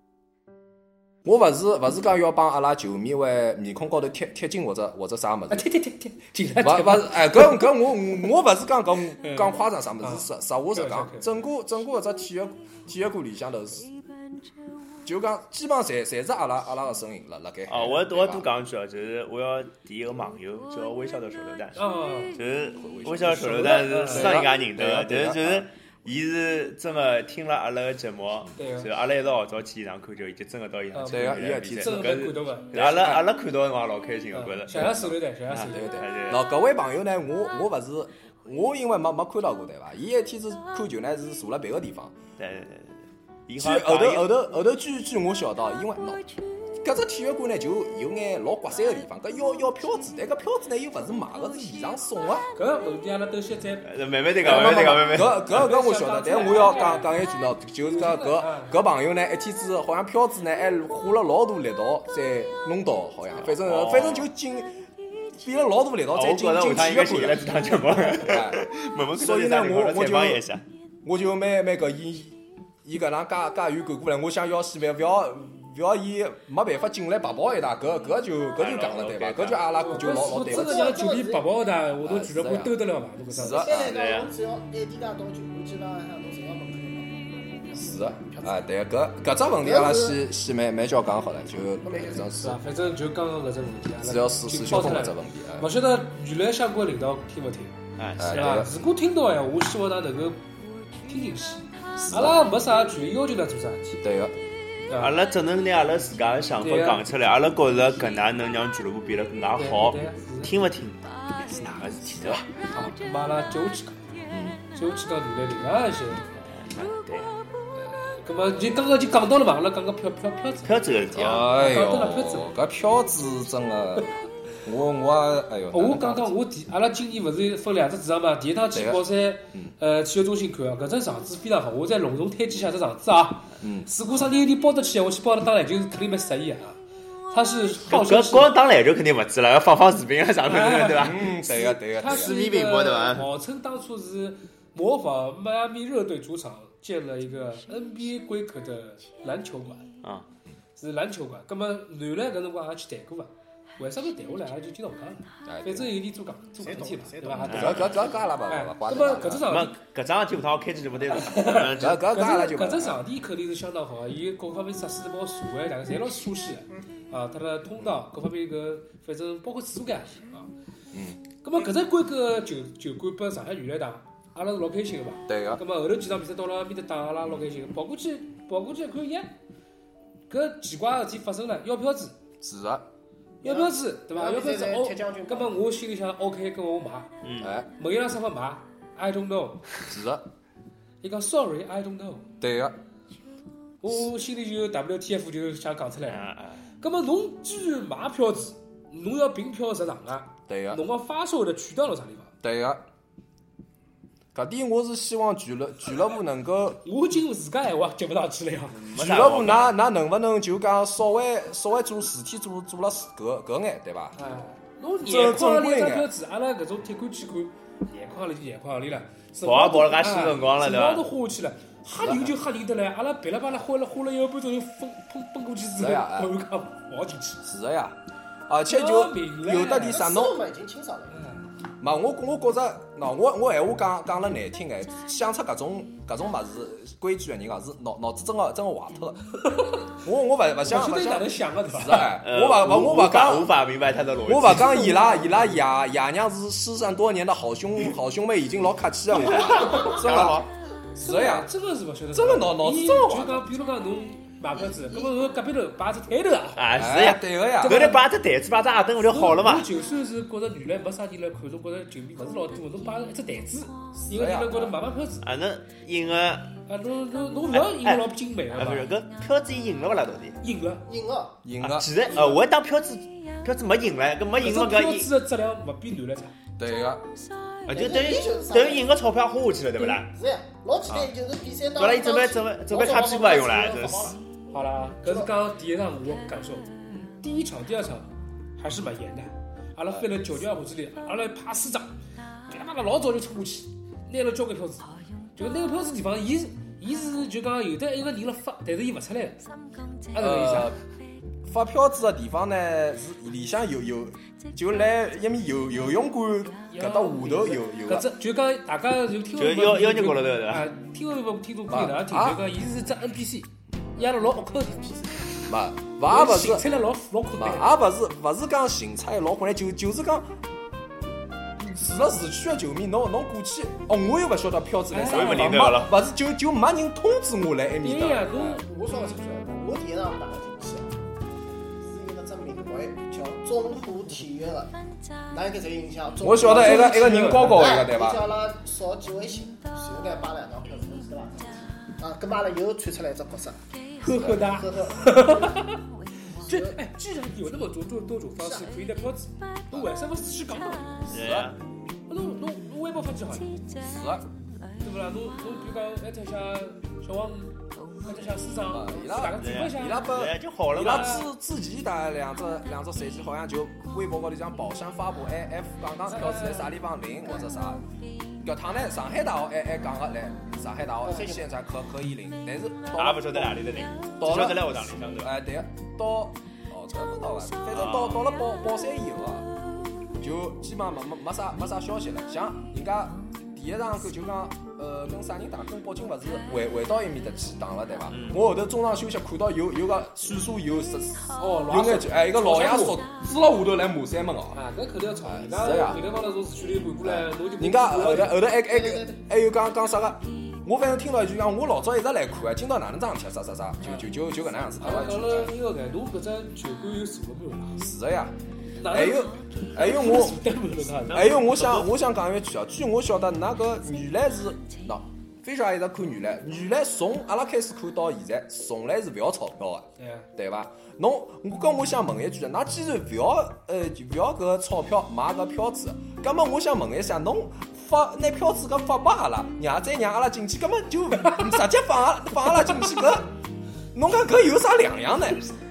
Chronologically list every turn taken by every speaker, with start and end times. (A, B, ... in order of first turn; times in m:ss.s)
0:01.2-0:05.6 A
0:05.5-0:07.9 B
0:06.6-0:13.9 A
0:09.2-0:11.4 B
0:15.0-0:18.5 A
0:17.7-0:21.8 C
0:21.8-0:22.3 B
0:22.3-0:36.4 C
0:22.8-0:25.7 A
0:23.2-0:24.5 B
0:28.6-0:28.9 B
0:30.9-0:32.7 B
0:31.1-0:32.0 A
0:32.7-0:33.3 A
0:34.3-0:35.9 B
0:35.7-0:42.1 A
0:42.4-0:44.3 C
0:43.6-0:52.5 A
0:52.5-0:57.2 B
0:53.8-0:55.5 C
0:54.4-1:04.8 A
0:57.8-0:58.8 B
1:03.4-1:04.3 C
1:05.3-1:07.6 A
1:06.1-1:10.6 C
1:08.2-1:10.4 A
1:11.0-1:21.0 A
1:18.6-1:19.6 C
1:19.8-1:23.8 B
1:20.0-1:21.4 D
1:22.0-1:22.7 A
1:23.3-1:23.8 A
1:23.4-1:28.6 D
1:23.7-1:24.3 C
1:27.7-1:32.6 A
1:29.6-1:30.2 D
1:31.8-1:32.2 D
1:32.4-1:37.8 B
1:34.0-1:35.7 A
1:38.0-1:38.6 C
1:38.2-1:38.7 A
1:38.3-1:40.4 B
1:41.0-1:44.0 B
1:42.0-1:42.4 A
1:44.0-1:44.3 A
1:44.9-1:45.2 B
1:45.0-1:52.4 C
1:46.6-1:47.1 B
1:47.7-1:48.2 B
1:49.6-1:50.7 B
1:51.5-1:52.4 A
1:52.7-1:56.3 B
1:54.3-1:54.6 A
1:56.3-1:57.3 C
1:57.7-2:00.8 B
2:00.6-2:01.4 C
2:01.1-2:04.1 A
2:01.4-2:02.5 B
2:04.6-2:06.3 A
2:05.7-2:16.8 B
2:08.7-2:09.0 A
2:13.6-2:13.9 A
2:17.3-2:18.5 B
2:17.9-2:21.2 C
2:20.4-2:29.8 B
2:20.9-2:22.3 A
2:22.0-2:23.3 C
2:30.8-2:37.9 B
2:35.4-2:35.9 A
2:36.6-2:38.2 D
2:37.3-2:39.5 A
2:37.5-2:37.9 C
2:38.4-2:39.7 B
2:39.4-2:42.0 C
2:41.1-2:50.5 B
2:41.7-2:43.0 A
2:50.9-2:51.2 A
2:51.4-2:59.3 B
2:55.3-2:55.6 A
3:00.3-3:02.1 B
3:02.4-3:02.8 A
3:03.4-3:07.1 B
3:03.4-3:05.6 D
3:07.2-3:07.5 C
3:07.4-3:07.7 A
3:07.8-3:09.6 B
3:09.9-3:10.2 A
3:11.0-3:12.3 B
3:12.4-3:12.8 A
3:13.8-3:16.3 B
3:16.1-3:16.6 C
3:16.8-3:22.3 B
3:20.5-3:20.8 A
3:22.4-3:22.8 A
3:24.3-3:26.8 A
3:26.8-3:28.8 B
3:28.7-3:29.8 C
3:28.9-3:34.2 A
3:34.2-3:47.4 B
3:35.0-3:36.1 A
3:39.4-3:41.0 C
3:42.0-3:42.3 A
3:45.7-3:46.3 A
3:47.4-3:50.4 A
3:48.7-3:50.0 B
3:49.8-3:51.2 D
3:51.1-3:51.4 B
3:51.8-3:59.4 A
3:59.4-3:59.9 B
3:59.9-4:03.5 A
4:00.6-4:02.2 B
4:02.2-4:04.8 C
4:04.2-4:11.5 A
4:04.4-4:05.6 B
4:09.2-4:10.5 C
4:11.0-4:16.7 B
4:12.1-4:13.5 A
4:14.6-4:15.1 D
4:16.6-4:19.7 C
4:16.7-4:18.0 A
4:17.6-4:18.0 B
4:19.0-4:25.2 B
4:23.9-4:24.8 A
4:25.2-4:26.6 C
4:26.7-4:28.9 B
4:27.5-4:30.4 C
4:30.4-4:30.8 B
4:30.8-4:31.4 D
4:31.4-4:31.9 A
4:31.6-4:35.1 C
4:32.1-4:32.4 B
4:34.4-4:36.3 B
4:36.6-4:37.0 A
4:37.6-4:40.1 C
4:37.7-4:38.9 D
4:40.1-4:44.2 D
4:41.8-4:44.1 C
4:44.5-4:52.0 B
4:45.0-4:45.3 D
4:52.5-4:59.4 B
5:00.1-5:00.7 B
5:00.1-5:00.8 A
5:01.4-5:08.1 A
5:06.7-5:15.1 B
5:09.4-5:10.7 C
5:11.7-5:12.4 A
5:15.5-5:16.6 A
5:16.1-5:17.7 B
5:17.3-5:20.3 A
5:21.6-5:28.6 A
5:24.9-5:25.5 B
5:25.0-5:25.9 C
5:27.8-5:28.6 B
5:28.5-5:30.9 D
5:31.8-5:34.8 D
5:35.3-5:43.6 D
5:36.2-5:38.3 A
5:36.4-5:37.7 B
5:44.0-5:45.8 B
5:44.0-5:44.5 A
5:44.4-5:45.6 D
5:46.4-5:46.8 D
5:46.4-5:51.0 B
5:48.4-5:48.7 D
5:51.0-5:51.5 A
5:51.1-5:51.6 C
5:52.1-5:53.5 B
5:53.8-5:54.3 A
5:54.8-6:00.1 B
5:58.7-6:07.8 A
5:59.4-6:01.2 C
6:00.8-6:01.2 B
6:06.1-6:06.7 B
6:08.4-6:13.6 A
6:11.0-6:11.5 D
6:13.0-6:15.3 C
6:14.2-6:19.5 A
6:17.7-6:18.2 C
6:20.2-6:34.6 A
6:28.1-6:28.4 C
6:31.4-6:33.0 B
6:34.5-6:38.4 B
6:35.2-6:36.1 A
6:37.0-6:45.5 A
6:38.5-6:39.2 D
6:43.8-6:44.1 B
6:44.8-6:47.8 B
6:47.8-6:48.4 A
6:48.8-6:51.4 B
6:48.9-6:50.4 A
6:51.1-6:51.9 C
6:51.1-7:13.3 A
7:00.0-7:00.3 B
7:13.9-7:15.5 A